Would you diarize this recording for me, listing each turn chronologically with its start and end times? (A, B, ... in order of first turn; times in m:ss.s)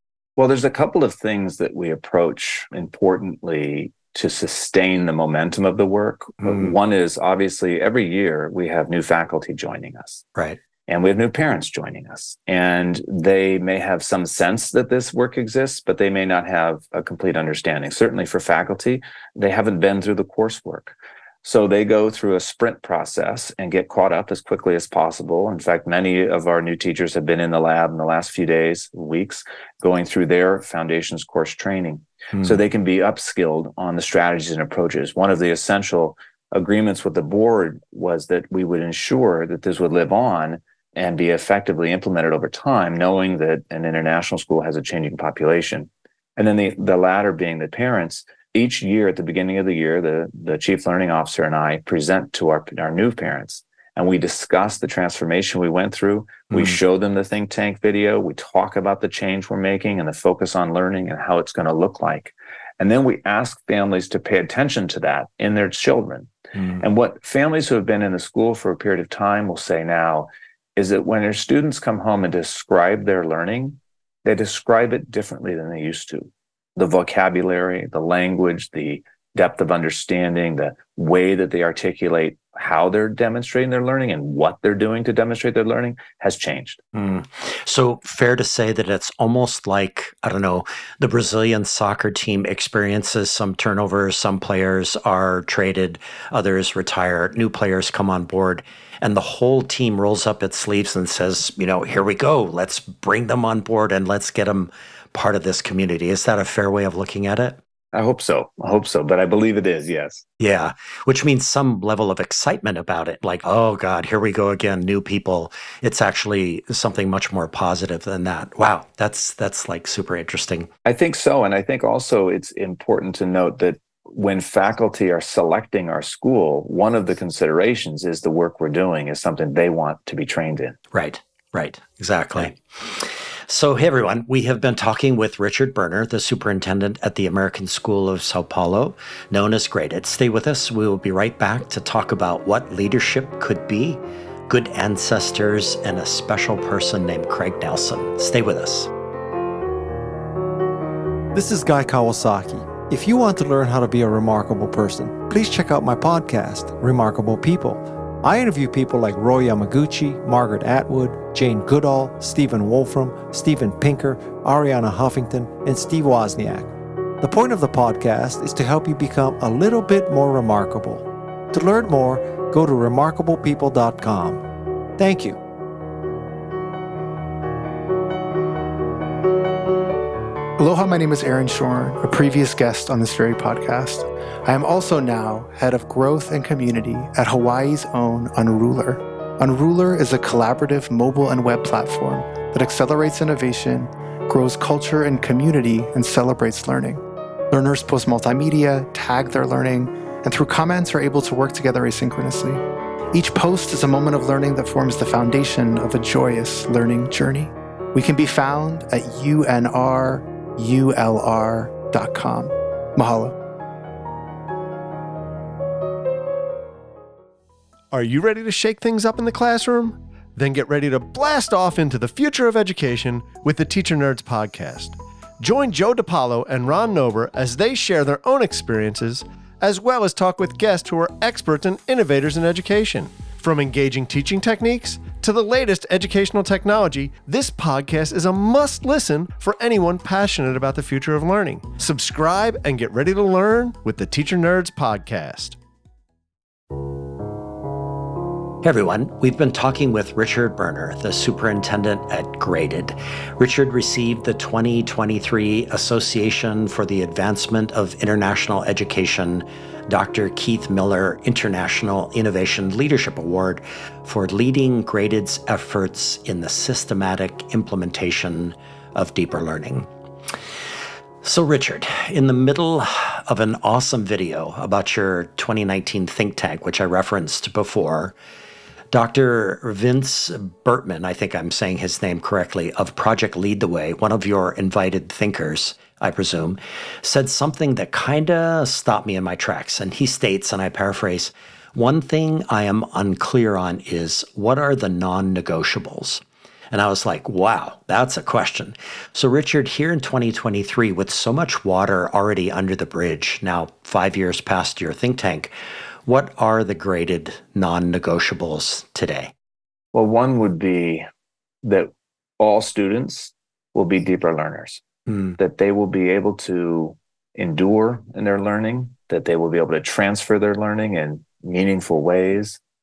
0:00.4-0:10.2 A
0:06.4-0:06.7 B
0:10.9-1:06.3 A
0:32.3-0:32.6 B
0:56.5-0:56.8 B
1:06.5-1:06.8 B
1:06.8-1:26.8 A
1:26.9-1:47.6 B
1:47.9-1:50.2 A
1:50.4-2:00.7 B
2:00.8-2:10.8 A
2:10.9-2:28.9 B
2:31.3-2:54.4 C
2:55.0-2:55.4 C
3:00.6-3:33.3 D
3:37.9-4:05.6 E
4:08.6-4:29.9 B
4:31.2-4:38.1 B
4:38.9-5:05.5 B
5:06.0-5:09.3 B
5:09.9-5:11.0 A
5:11.6-5:14.8 A
5:15.1-5:15.4 B
5:15.4-5:22.6 A